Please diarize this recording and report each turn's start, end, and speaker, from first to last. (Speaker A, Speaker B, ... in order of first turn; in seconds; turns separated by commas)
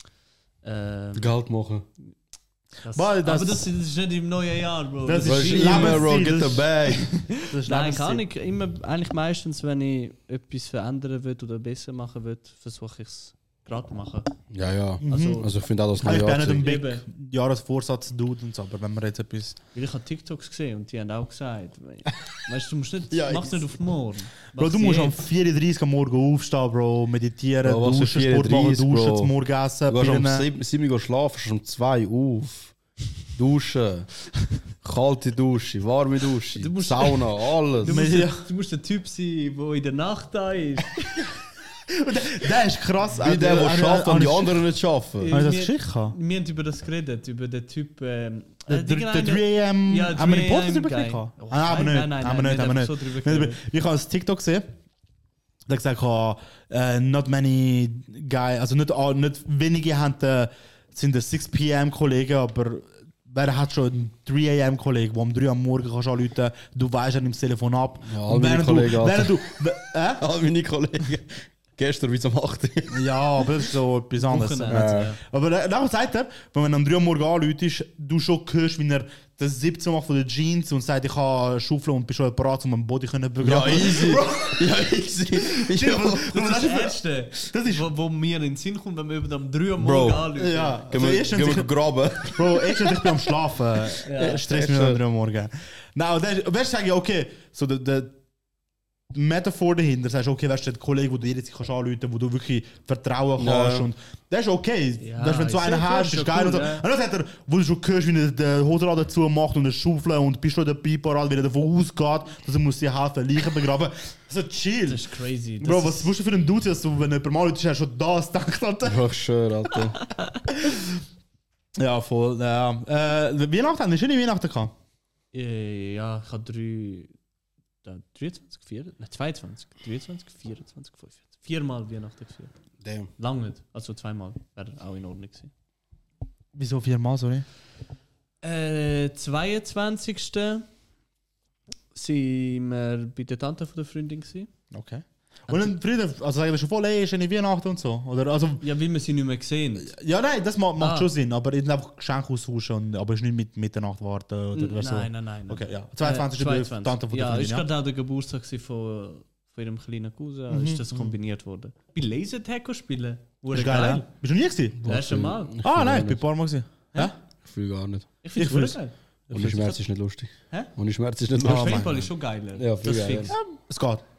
Speaker A: 0.6-1.3, Speaker B: 1.1-1.9, Speaker A: 2.8-6.1, Speaker C: 2.9-3.7, Speaker C: 5.1-6.7, Speaker B: 5.2-7.1, Speaker C: 7.3-8.2, Speaker A: 7.6-14.3, Speaker B: 14.5-16.7, Speaker C: 15.0-15.4, Speaker A: 15.1-15.4, Speaker C: 16.0-19.6, Speaker A: 16.6-17.1, Speaker A: 19.7-25.2, Speaker B: 23.1-23.7, Speaker C: 24.6-30.5, Speaker B: 27.6-29.4, Speaker B: 29.9-32.8, Speaker B: 33.3-34.1, Speaker B: 34.8-38.0, Speaker A: 36.6-41.3, Speaker C: 37.9-38.5, Speaker C: 42.0-44.6, Speaker B: 43.2-45.3, Speaker A: 45.2-53.6, Speaker C: 45.3-46.1, Speaker C: 48.7-54.7, Speaker C: 55.7-70.2, Speaker B: 68.0-69.4, Speaker B: 70.2-73.0, Speaker C: 72.9-84.6, Speaker A: 74.2-75.2, Speaker B: 74.7-75.1, Speaker B: 83.4-86.5, Speaker C: 85.6-87.8, Speaker A: 86.4-91.2, Speaker B: 89.8-92.8, Speaker C: 90.4-91.8, Speaker C: 92.3-98.1, Speaker A: 94.1-94.4, Speaker B: 94.3-95.0, Speaker C: 99.1-115.0, Speaker B: 103.4-103.9, Speaker A: 105.0-106.9, Speaker A: 114.9-116.1, Speaker C: 115.6-119.0, Speaker B: 118.8-120.0, Speaker C: 121.8-124.7, Speaker A: 125.3-127.1, Speaker A: 127.8-132.5, Speaker B: 132.8-133.1, Speaker A: 133.2-135.5, Speaker C: 136.5-137.4, Speaker A: 138.4-140.7, Speaker A: 141.9-144.5, Speaker C: 144.7-148.6, Speaker A: 148.6-149.9, Speaker C: 149.8-157.7, Speaker A: 150.8-151.1, Speaker A: 154.5-164.1, Speaker C: 160.5-161.1, Speaker C: 163.5-164.8, Speaker B: 164.8-166.2, Speaker A: 164.9-165.6, Speaker C: 165.6-167.1, Speaker B: 167.4-168.1, Speaker A: 168.2-169.8, Speaker C: 168.4-168.8, Speaker B: 169.3-173.3, Speaker A: 171.4-173.4, Speaker C: 171.4-171.9, Speaker C: 173.3-174.0